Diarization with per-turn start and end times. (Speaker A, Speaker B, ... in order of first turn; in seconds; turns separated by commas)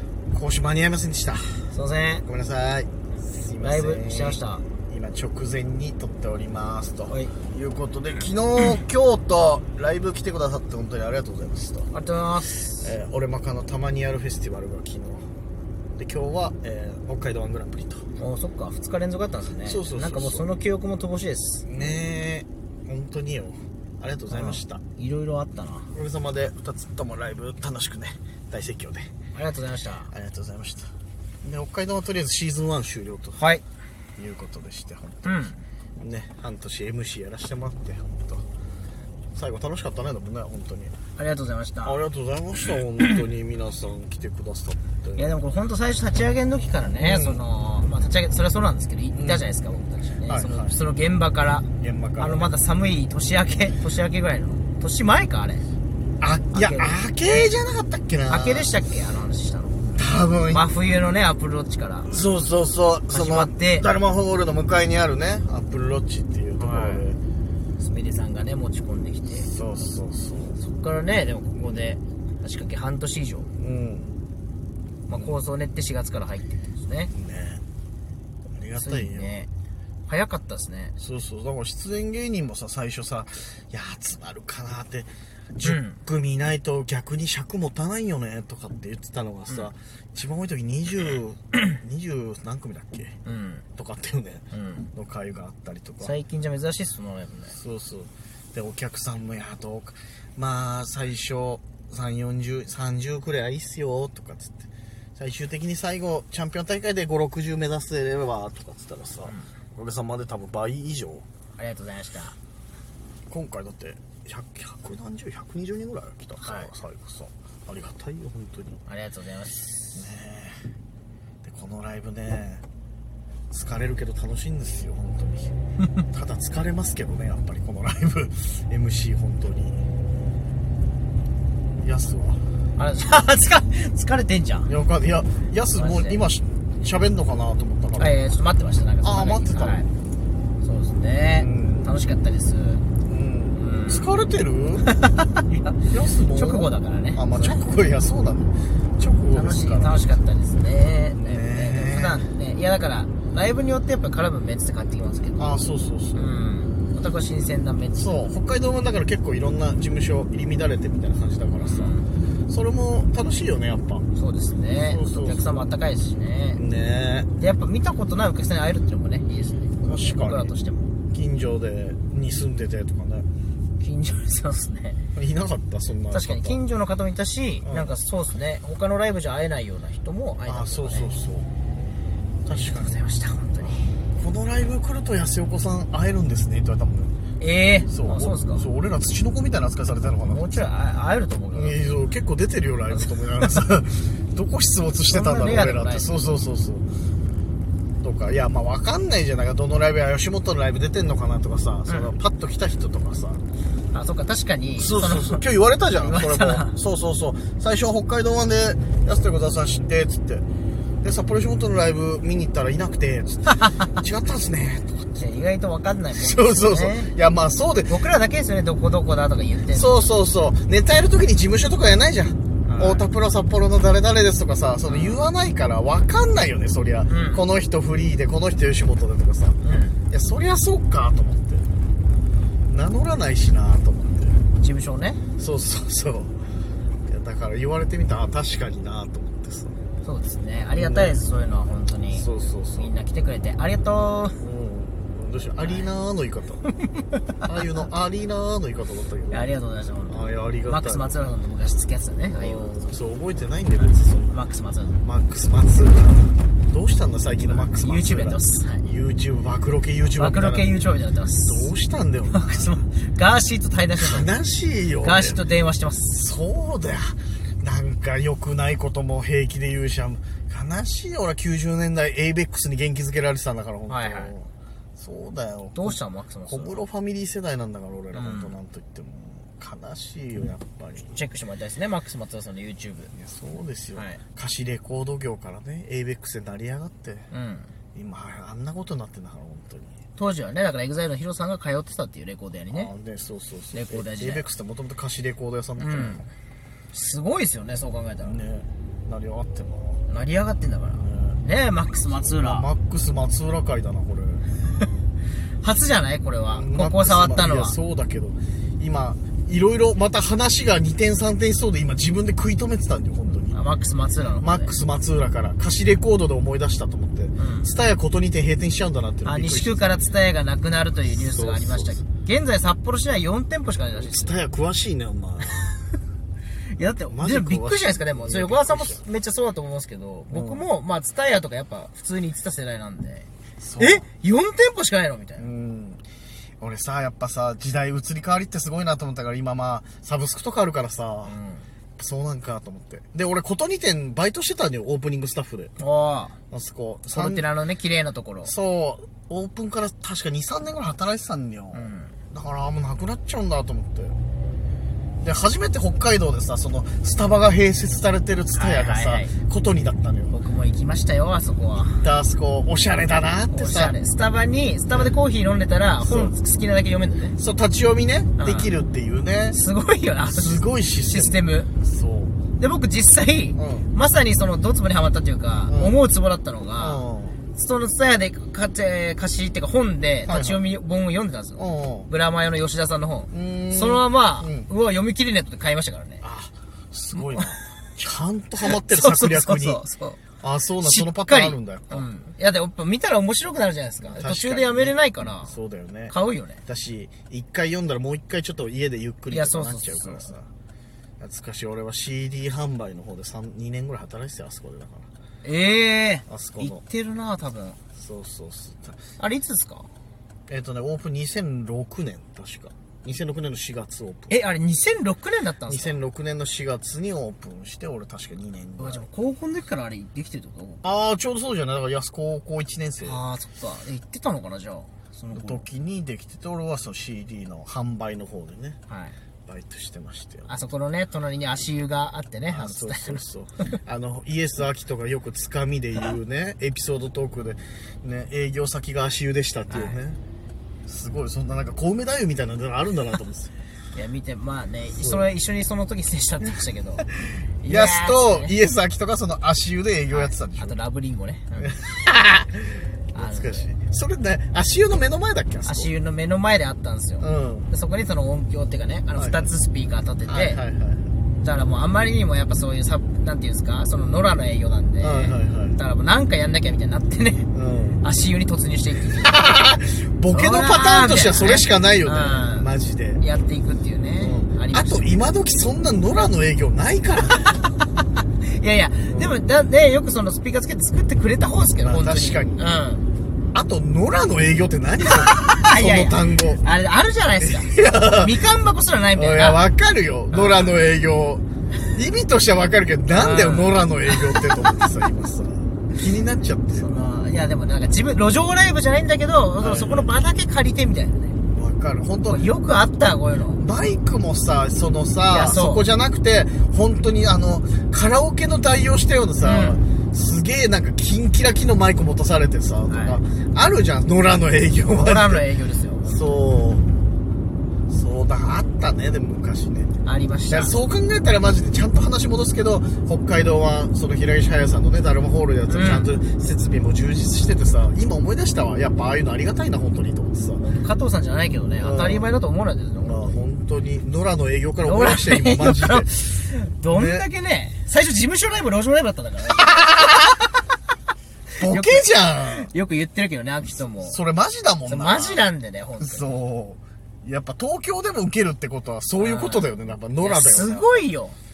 Speaker A: 0.3-1.7, Speaker B: 1.7-2.2, Speaker A: 2.2-11.9, Speaker B: 3.6-4.7, Speaker B: 7.1-7.3, Speaker B: 11.9-12.9, Speaker A: 12.7-15.3, Speaker A: 16.0-18.1, Speaker B: 18.2-21.7, Speaker A: 19.6-20.5, Speaker A: 21.6-24.8, Speaker B: 24.3-25.9, Speaker A: 25.9-29.1, Speaker B: 29.3-30.1, Speaker A: 30.1-30.9, Speaker A: 31.4-33.4, Speaker B: 33.4-33.6, Speaker A: 34.2-38.4, Speaker B: 35.2-35.6, Speaker A: 39.3-40.9, Speaker B: 41.2-42.0, Speaker A: 41.9-45.3, Speaker B: 45.2-51.7, Speaker A: 47.0-47.4, Speaker A: 49.1-49.5, Speaker A: 50.2-50.7, Speaker A: 51.8-52.5, Speaker B: 52.2-55.7, Speaker A: 56.2-58.8, Speaker B: 56.5-57.0, Speaker B: 58.3-59.9, Speaker A: 60.0-60.7, Speaker B: 60.5-62.1, Speaker A: 62.1-67.2, Speaker B: 63.1-63.9, Speaker B: 66.6-67.1, Speaker B: 67.8-69.5, Speaker A: 69.4-70.6, Speaker B: 70.6-73.5, Speaker A: 73.6-74.2, Speaker B: 75.1-77.1, Speaker A: 77.1-77.6, Speaker A: 78.5-79.4, Speaker B: 78.8-79.5, Speaker B: 80.1-81.0, Speaker A: 81.0-93.2, Speaker B: 85.6-86.0, Speaker B: 93.2-93.7, Speaker A: 93.8-96.1, Speaker B: 94.5-94.9, Speaker B: 96.0-97.6, Speaker A: 97.5-111.2, Speaker B: 111.6-112.4, Speaker A: 113.3-118.8, Speaker B: 116.4-116.7, Speaker B: 118.9-119.7, Speaker A: 119.9-120.6, Speaker A: 121.4-122.6, Speaker A: 123.5-125.5, Speaker A: 126.1-129.8, Speaker A: 131.8-132.4, Speaker B: 132.8-134.7, Speaker A: 134.7-138.2, Speaker B: 135.7-136.2, Speaker B: 138.0-139.9, Speaker A: 139.0-139.8, Speaker B: 140.6-142.8, Speaker A: 141.3-141.9, Speaker A: 143.1-150.2, Speaker B: 143.6-144.1, Speaker B: 144.9-145.7, Speaker B: 146.3-147.7, Speaker B: 149.3-155.6, Speaker A: 151.2-152.3, Speaker A: 155.4-156.4, Speaker B: 156.2-158.2, Speaker A: 157.9-161.9, Speaker B: 161.7-162.1, Speaker A: 162.5-164.1, Speaker B: 164.2-166.6, Speaker A: 164.8-165.7, Speaker A: 166.5-167.3, Speaker B: 167.4-170.9, Speaker A: 169.8-170.5, Speaker A: 171.1-173.3, Speaker B: 173.8-175.0, Speaker A: 175.2-176.6, Speaker B: 176.1-181.1, Speaker A: 177.6-177.9, Speaker A: 180.5-181.5, Speaker A: 182.4-183.0, Speaker B: 182.5-183.9, Speaker A: 183.6-187.2, Speaker B: 187.4-188.7, Speaker A: 187.9-190.6, Speaker B: 190.2-191.8, Speaker A: 191.5-196.9, Speaker B: 192.9-193.7, Speaker B: 195.1-196.1, Speaker A: 198.0-203.4, Speaker B: 203.9-206.8, Speaker A: 204.8-210.4, Speaker A: 211.0-215.2, Speaker B: 213.5-213.9, Speaker B: 215.2-217.1, Speaker A: 216.1-218.0, Speaker B: 217.9-220.0, Speaker A: 219.7-231.7, Speaker B: 222.7-223.0, Speaker B: 224.8-225.2, Speaker B: 227.1-227.4, Speaker B: 229.6-230.0, Speaker A: 232.7-234.4, Speaker B: 234.6-235.2, Speaker A: 235.4-236.3, Speaker A: 237.1-239.8, Speaker B: 240.0-244.4, Speaker A: 240.8-241.2, Speaker A: 242.1-242.9, Speaker A: 244.4-246.6, Speaker B: 245.6-245.9, Speaker B: 246.7-247.5, Speaker A: 247.4-249.5, Speaker B: 249.3-252.9, Speaker A: 250.1-251.2, Speaker A: 252.3-254.4, Speaker B: 253.8-255.0, Speaker A: 255.0-260.7, Speaker B: 257.4-258.9, Speaker B: 260.2-261.7, Speaker A: 261.5-262.7, Speaker B: 262.3-264.3, Speaker A: 264.0-265.4, Speaker B: 265.0-266.2, Speaker A: 266.1-281.2, Speaker B: 273.9-274.3, Speaker B: 275.7-276.8, Speaker B: 278.1-278.6, Speaker B: 281.1-283.1, Speaker A: 283.1-287.3, Speaker B: 287.3-287.7, Speaker A: 287.9-290.0, Speaker B: 290.2-292.9, Speaker A: 292.7-296.3, Speaker B: 293.7-294.5, Speaker B: 295.8-296.2, Speaker B: 296.9-298.4, Speaker A: 298.2-300.0, Speaker B: 300.1-302.7, Speaker A: 301.0-301.4, Speaker A: 302.1-304.5, Speaker B: 305.6-307.8, Speaker A: 306.5-313.6, Speaker B: 313.5-314.7, Speaker A: 314.4-320.0, Speaker B: 317.4-317.7, Speaker B: 319.2-324.4, Speaker A: 321.1-322.0, Speaker A: 323.9-325.8, Speaker B: 326.7-335.5, Speaker A: 327.1-329.0, Speaker A: 330.3-330.7, Speaker A: 333.6-334.1, Speaker A: 335.4-336.0, Speaker A: 336.6-341.4, Speaker B: 341.2-341.7, Speaker A: 342.0-345.7, Speaker B: 345.8-346.4, Speaker A: 346.5-347.5, Speaker B: 347.1-348.5, Speaker A: 348.4-354.2, Speaker B: 351.7-352.1, Speaker A: 355.2-360.3, Speaker B: 358.5-359.3, Speaker B: 360.3-362.1, Speaker A: 362.0-363.9, Speaker B: 363.5-367.4, Speaker A: 366.0-366.4, Speaker A: 367.4-369.6, Speaker B: 368.4-368.7, Speaker B: 369.5-371.7, Speaker A: 370.3-372.4, Speaker B: 372.6-377.0, Speaker A: 373.6-373.9, Speaker A: 375.7-376.0, Speaker A: 376.8-377.4, Speaker B: 377.6-386.2, Speaker A: 380.3-380.6, Speaker A: 381.6-382.1, Speaker A: 383.3-384.7, Speaker A: 386.2-389.8, Speaker B: 388.6-390.2, Speaker A: 390.4-392.1, Speaker B: 390.8-395.6, Speaker A: 394.0-400.5, Speaker B: 396.1-396.6, Speaker B: 399.3-400.3, Speaker A: 401.2-405.1, Speaker B: 405.4-407.8, Speaker A: 406.3-406.8, Speaker A: 407.9-409.0, Speaker B: 409.2-409.9, Speaker A: 410.5-414.3, Speaker B: 414.3-416.0, Speaker A: 415.7-419.1, Speaker B: 418.8-420.8, Speaker A: 420.8-423.2, Speaker B: 423.0-425.6, Speaker A: 425.3-428.8, Speaker B: 428.9-429.2, Speaker A: 429.5-430.5, Speaker B: 430.5-433.2, Speaker A: 432.5-440.2, Speaker B: 439.7-440.0, Speaker A: 440.9-443.5, Speaker B: 443.9-447.1, Speaker A: 444.9-445.3, Speaker A: 447.1-450.8, Speaker B: 447.6-448.6, Speaker B: 450.1-451.8, Speaker A: 451.6-455.9, Speaker B: 453.1-453.7, Speaker B: 455.6-460.6, Speaker A: 457.2-457.7, Speaker A: 459.2-459.5, Speaker A: 460.2-461.1, Speaker B: 461.4-467.5, Speaker A: 465.0-465.8, Speaker A: 467.5-468.0, Speaker B: 468.0-469.6, Speaker A: 469.2-473.2, Speaker B: 470.3-475.1, Speaker A: 474.2-477.6, Speaker B: 477.5-477.7, Speaker B: 478.4-483.1, Speaker A: 479.1-479.4, Speaker A: 481.8-482.6, Speaker A: 483.5-486.6, Speaker B: 485.1-489.6, Speaker A: 487.4-488.3, Speaker A: 489.1-497.1, Speaker B: 490.3-490.7, Speaker B: 493.1-494.8, Speaker B: 496.7-501.4, Speaker A: 499.6-500.1, Speaker A: 501.5-502.4, Speaker B: 502.2-503.6, Speaker A: 503.6-515.5, Speaker B: 505.3-505.9, Speaker B: 509.4-509.8, Speaker B: 512.9-513.2, Speaker B: 514.8-516.4, Speaker A: 516.0-516.9, Speaker A: 517.9-519.9, Speaker B: 520.0-520.8, Speaker A: 520.5-530.6, Speaker B: 525.7-526.1, Speaker B: 530.6-533.4, Speaker A: 531.8-532.3, Speaker A: 533.0-537.3, Speaker B: 534.8-539.8, Speaker A: 539.6-540.3, Speaker B: 541.6-544.2, Speaker A: 541.6-542.7, Speaker A: 543.8-551.0, Speaker B: 544.9-546.3, Speaker B: 549.2-551.4